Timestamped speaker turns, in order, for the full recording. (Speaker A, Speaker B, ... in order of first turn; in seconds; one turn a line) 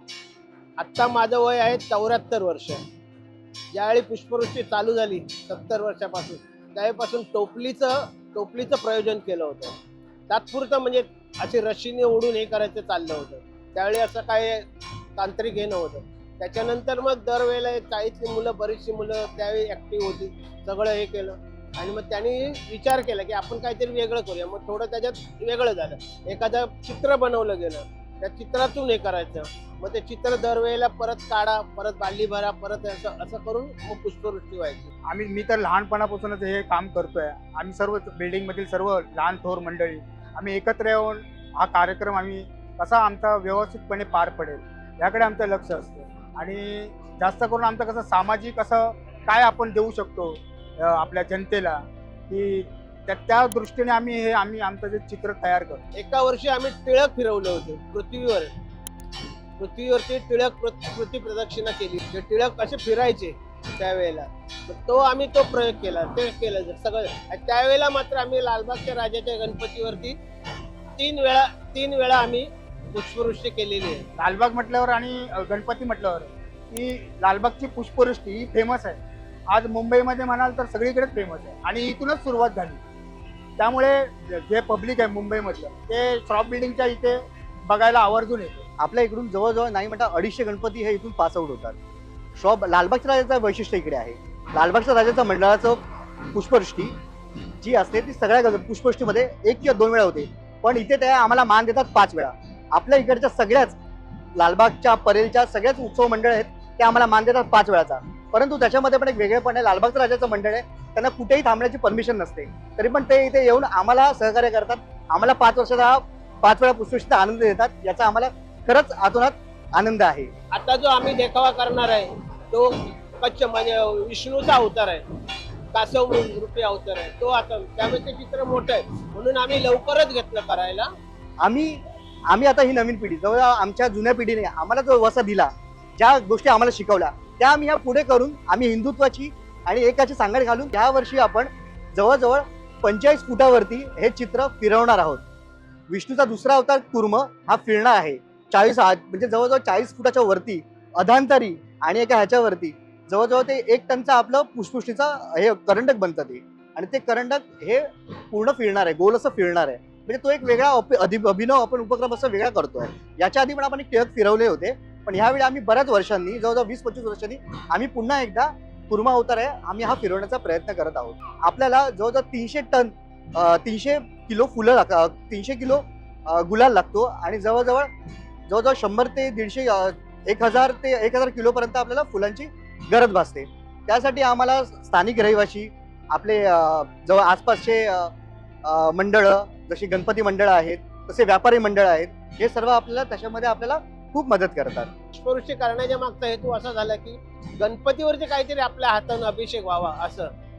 Speaker A: 0.8-2.8
Speaker A: 3.7-9.8
Speaker A: 10.3-14.6
Speaker A: 15.2-34.9
Speaker B: 35.1-55.8
Speaker A: 55.9-58.5
Speaker A: 59.6-70.2
Speaker A: 71.0-74.0
Speaker B: 74.2-79.0
Speaker B: 79.5-82.8
Speaker B: 83.6-88.6
Speaker C: 88.8-91.8
Speaker C: 92.3-97.0
Speaker C: 97.6-103.8
Speaker C: 104.3-120.3
Speaker A: 120.5-125.0
Speaker A: 125.7-130.9
Speaker C: 131.4-131.8
Speaker C: 132.3-145.2
Speaker C: 145.9-177.9
Speaker C: 178.5-188.1
Speaker C: 188.6-194.9
Speaker A: 195.1-200.3